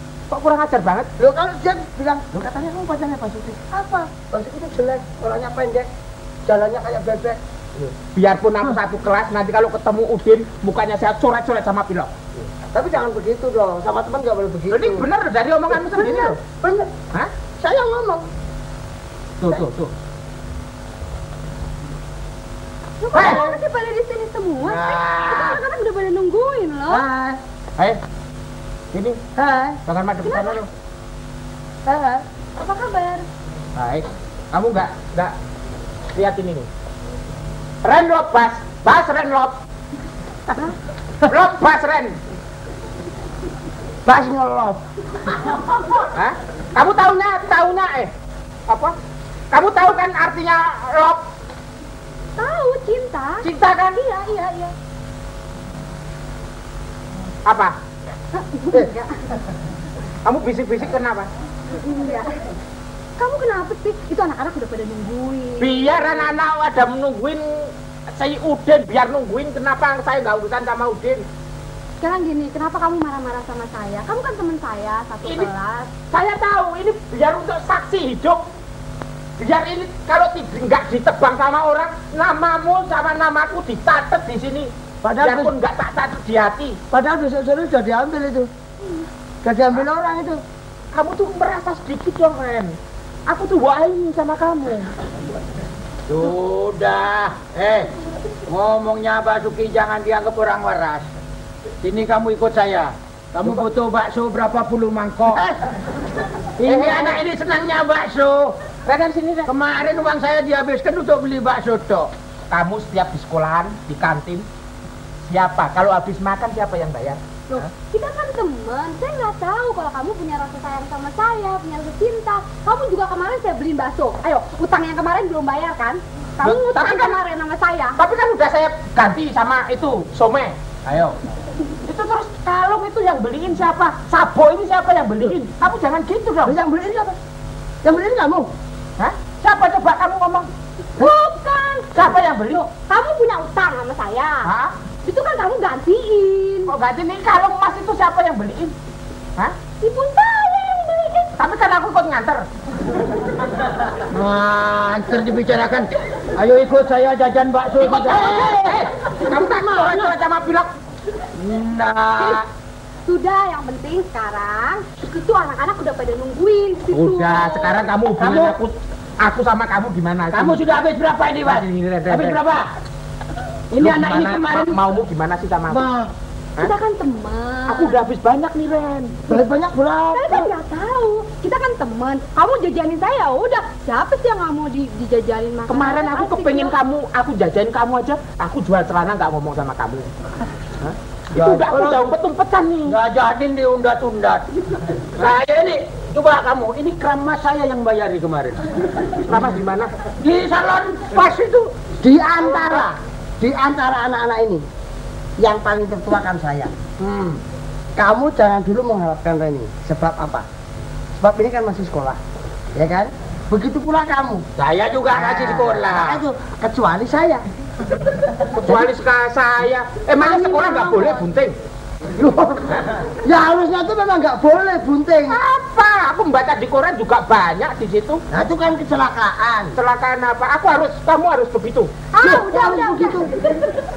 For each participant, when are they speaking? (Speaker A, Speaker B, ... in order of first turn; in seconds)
Speaker A: 0.3-1.1, 8.1-12.1, 14.7-16.4, 19.4-19.9, 23.1-23.5, 28.9-29.2, 29.9-30.7, 33.8-35.3, 36.1-36.7, 37.8-39.6, 41.2-42.2, 46.1-48.1, 48.7-49.0, 49.5-51.2, 53.4-54.0, 57.5-57.8, 60.2-61.3, 65.6-71.3, 75.2-75.5, 76.1-78.5, 79.4-86.8, 90.9-94.9, 106.6-107.2, 108.8-109.5, 112.5-114.5, 115.3-117.7, 126.4-127.2, 128.0-131.2, 131.8-136.6, 139.0-140.5, 141.9-142.7, 144.4-144.7, 146.7-148.8, 151.4-152.5, 157.8-160.7, 166.9-170.6, 171.4-172.4, 173.8-175.9, 177.7-179.1, 185.7-190.1, 190.8-193.0, 199.2-199.9, 202.4-202.9, 218.3-221.6, 225.3-228.2, 229.8-231.9
Speaker B: 1.2-5.9, 6.5-8.0, 12.7-15.1, 15.7-16.9, 17.6-18.2, 26.9-27.4, 29.4-29.8, 31.9-32.2, 44.1-44.8, 85.0-85.5, 86.9-88.5, 89.4-90.4, 136.4-137.2, 137.8-138.5, 158.3-160.1, 179.3-180.5, 202.0-204.6, 205.4-206.7, 208.0-210.5, 211.2-212.2, 212.8-214.4, 215.1-217.4, 220.2-221.2, 222.2-225.4, 228.3-229.8, 232.2-233.3
Speaker C: 23.0-27.1, 30.2-30.6, 32.6-33.2, 52.4-54.7, 58.4-59.1, 61.8-62.3, 63.2-66.2, 72.0-75.9, 117.5-128.0, 141.0-142.1, 142.9-144.5, 145.0-146.7, 149.8-151.3, 162.2-162.4, 163.1-167.8, 176.6-178.0, 180.1-186.8, 232.1-233.7
Speaker D: 24.6-25.6, 96.1-97.9, 98.5-101.1, 101.8-105.6, 106.6-108.5, 109.5-112.1, 154.1-158.7, 161.4-162.4, 168.2-168.6, 170.3-172.7, 173.7-174.8, 175.7-176.1, 191.3-192.2, 192.8-198.6, 200.2-201.7, 207.0-207.4, 214.6-216.2